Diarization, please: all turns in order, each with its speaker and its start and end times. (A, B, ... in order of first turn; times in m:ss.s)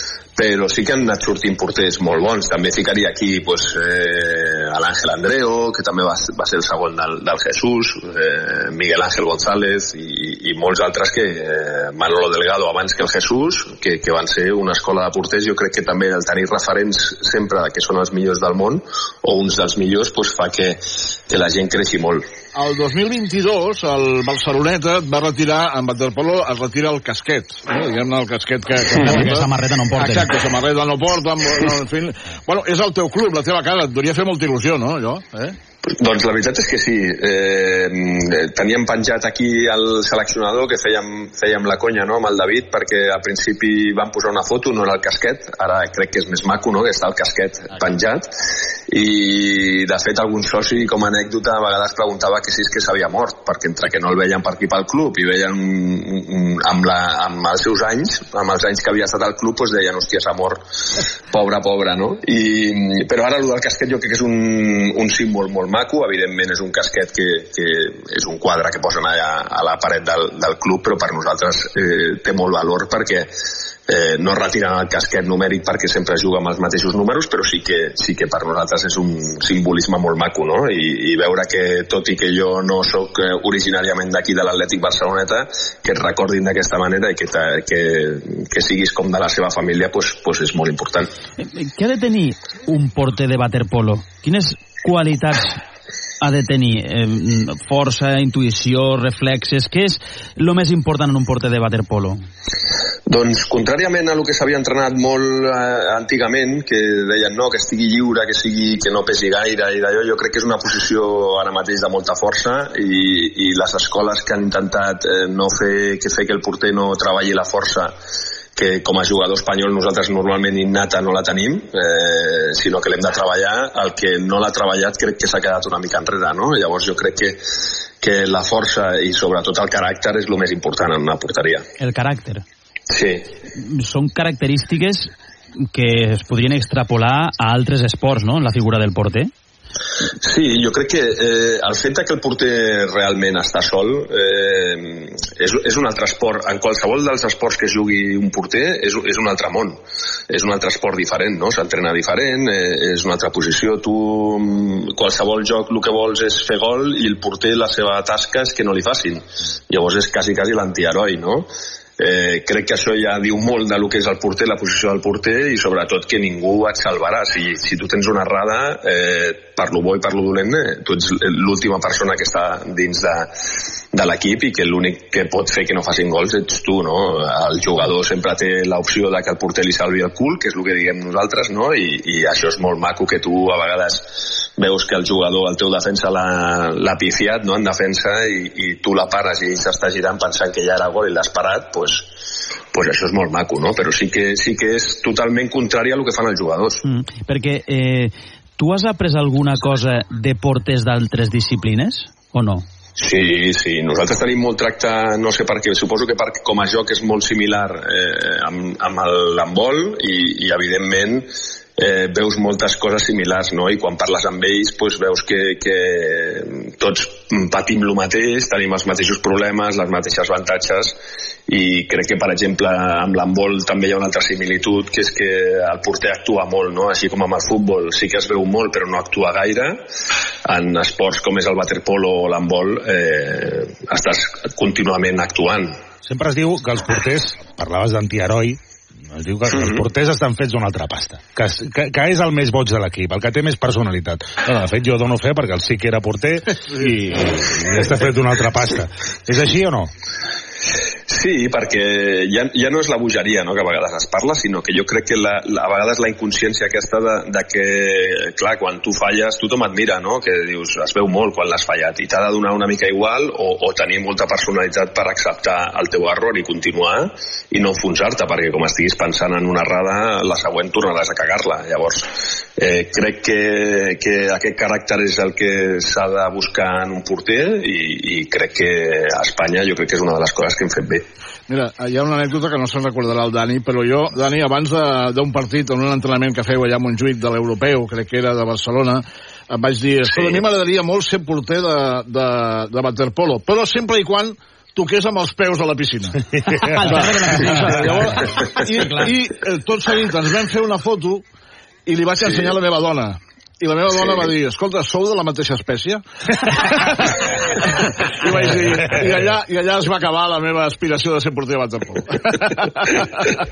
0:00.4-0:22.2 A
0:22.5-0:35.5 B
0:29.0-0:30.4 C
0:35.8-0:48.3 A
0:48.9-1:00.6 A
1:01.3-1:13.3 A
1:13.9-1:31.1 A
1:31.4-1:35.6 C
1:36.2-1:42.2 C
1:43.1-1:57.9 A
1:58.5-2:07.4 A
2:08.0-2:11.6 A
2:11.8-2:12.4 C
2:12.9-2:13.3 A
2:13.6-2:15.1 C
2:15.7-2:19.3 C
2:20.2-2:29.8 A
2:30.3-2:41.5 A
2:42.0-2:53.3 A
2:53.9-3:12.1 A
3:12.7-3:16.8 A
3:16.8-3:22.6 C
3:23.0-3:49.8 A
3:50.4-3:55.8 A
3:56.0-4:09.9 D
3:59.5-3:59.8 A
4:11.1-4:41.0 A
4:41.5-4:56.2 B
4:56.8-5:01.2 B
4:56.9-4:58.0 C
4:58.7-4:59.1 C
5:01.8-5:13.3 B